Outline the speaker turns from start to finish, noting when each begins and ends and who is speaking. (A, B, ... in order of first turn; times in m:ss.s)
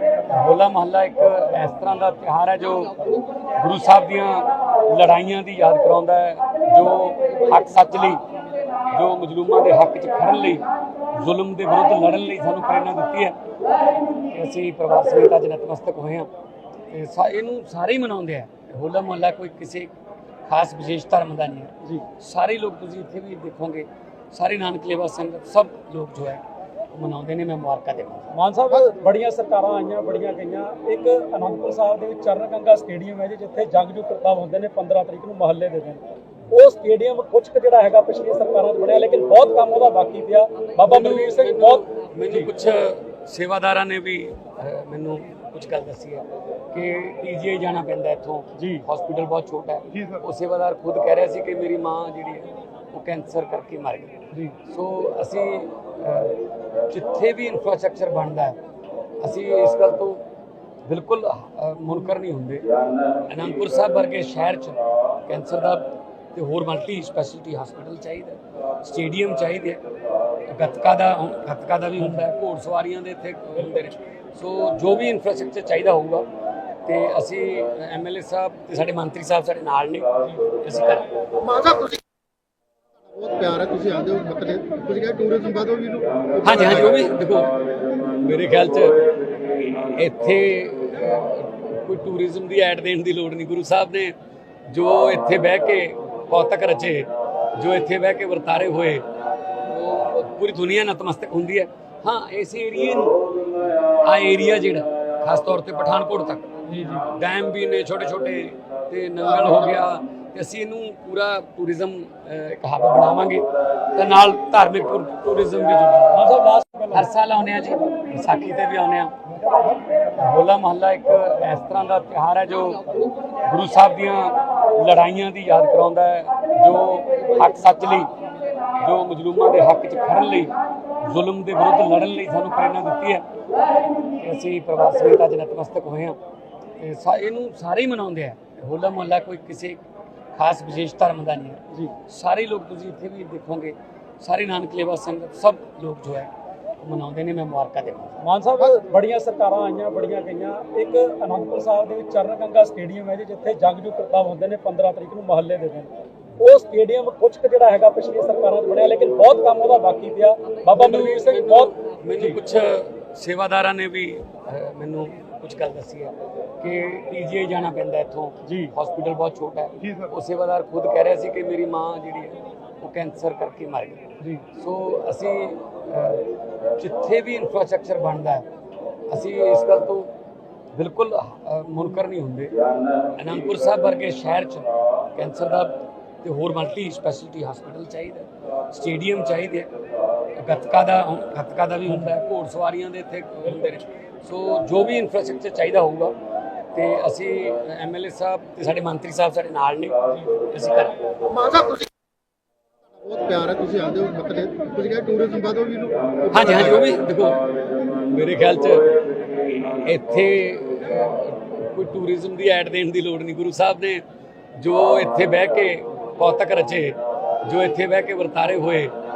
0:00.2-0:08.2 A
0:08.8-0:13.4 A
0:14.2-0:16.3 A
0:16.9-0:19.9 A
0:20.5-0:26.4 A
0:26.9-0:28.3 A
0:28.3-0:42.5 B
0:40.9-0:56.4 A
0:48.6-0:48.8 B
0:56.9-0:58.6 A
0:59.2-1:00.2 A
1:00.9-1:02.7 A
1:03.3-1:09.8 A
1:10.5-1:16.2 A
1:12.0-1:12.2 B
1:16.8-1:21.0 A
1:21.4-1:22.0 C
1:23.0-1:27.0 C
1:26.4-1:34.1 A
1:34.7-1:39.1 A
1:39.6-1:56.2 A
1:46.6-1:47.1 B
1:56.1-1:57.1 B
1:56.9-1:59.2 A
2:00.2-2:08.1 A
2:08.8-2:13.2 A
2:14.0-2:16.2 A
2:16.8-2:19.8 A
2:20.3-2:28.2 A
2:28.2-2:35.9 B
2:36.4-2:42.4 B
2:40.7-2:54.0 A
2:48.4-2:48.7 B
2:54.5-2:58.4 A
2:59.1-3:00.1 A
3:00.8-3:02.5 A
3:03.2-3:09.7 A
3:10.4-3:16.1 A
3:11.9-3:12.1 B
3:16.7-3:21.0 A
3:21.3-3:21.9 C
3:22.9-3:26.8 C
3:26.3-3:28.9 A
3:29.7-3:34.0 A
3:34.6-3:38.9 A